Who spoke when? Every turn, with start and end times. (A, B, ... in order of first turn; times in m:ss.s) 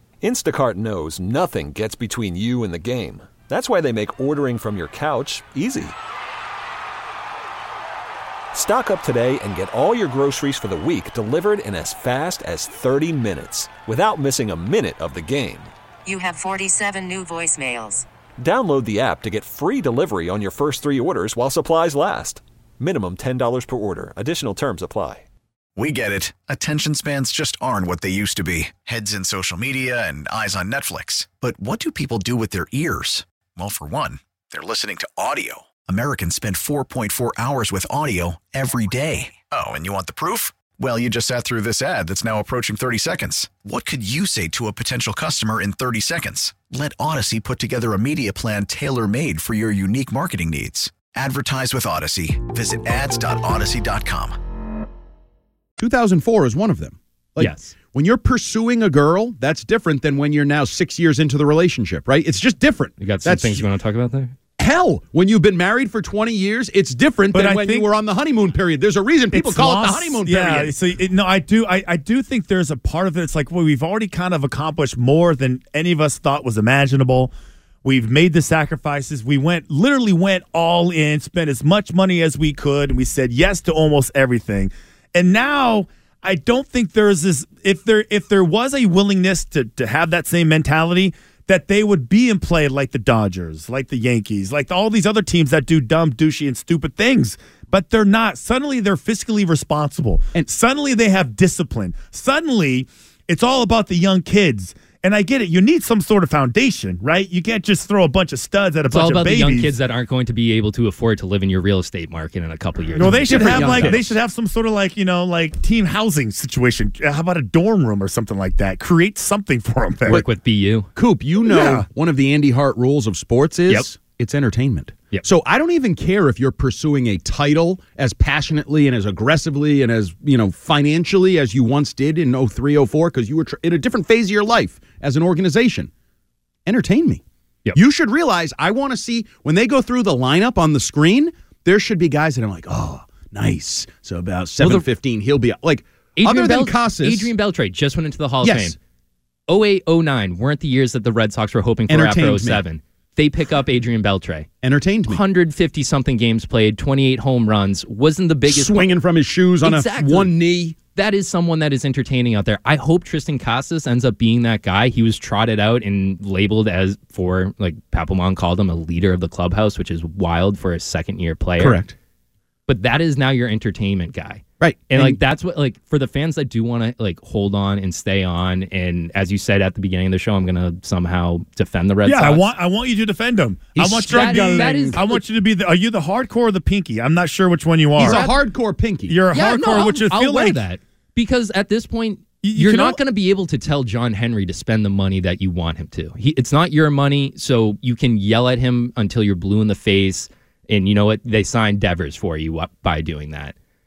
0:00.2-0:05.9 A
0:08.5-0:15.7 A
0:16.0-0:18.0 B
0:18.4-0:25.2 A
0:25.8-0:54.4 C
0:55.8-1:03.6 D
0:57.4-0:57.7 E
1:03.0-1:04.3 E
1:04.6-1:10.7 D
1:07.3-1:07.9 F
1:09.3-1:17.3 F
1:17.8-1:49.7 F
1:48.9-1:54.1 E
1:52.9-2:00.2 F
1:53.0-1:54.1 D
2:00.1-2:00.9 E
2:00.9-2:15.9 D
2:01.4-2:01.9 F
2:16.6-2:17.2 D
2:17.7-2:27.3 D
2:24.6-2:24.8 E
2:26.2-2:28.8 E
2:28.4-2:28.7 D
2:29.5-2:34.5 E
2:31.9-2:32.6 D
2:34.6-2:35.2 D
2:35.1-2:38.9 E
2:38.5-2:40.8 D
2:39.6-2:40.3 E
2:40.9-2:51.8 E
2:51.6-2:51.9 D
2:52.7-3:02.4 E
2:54.6-2:55.2 D
3:02.0-3:08.3 F
3:03.8-3:05.2 E
3:04.1-3:05.0 D
3:08.0-3:09.2 D
3:08.0-3:08.3 E
3:09.1-3:10.6 F
3:09.3-3:23.5 E
3:12.4-3:13.0 F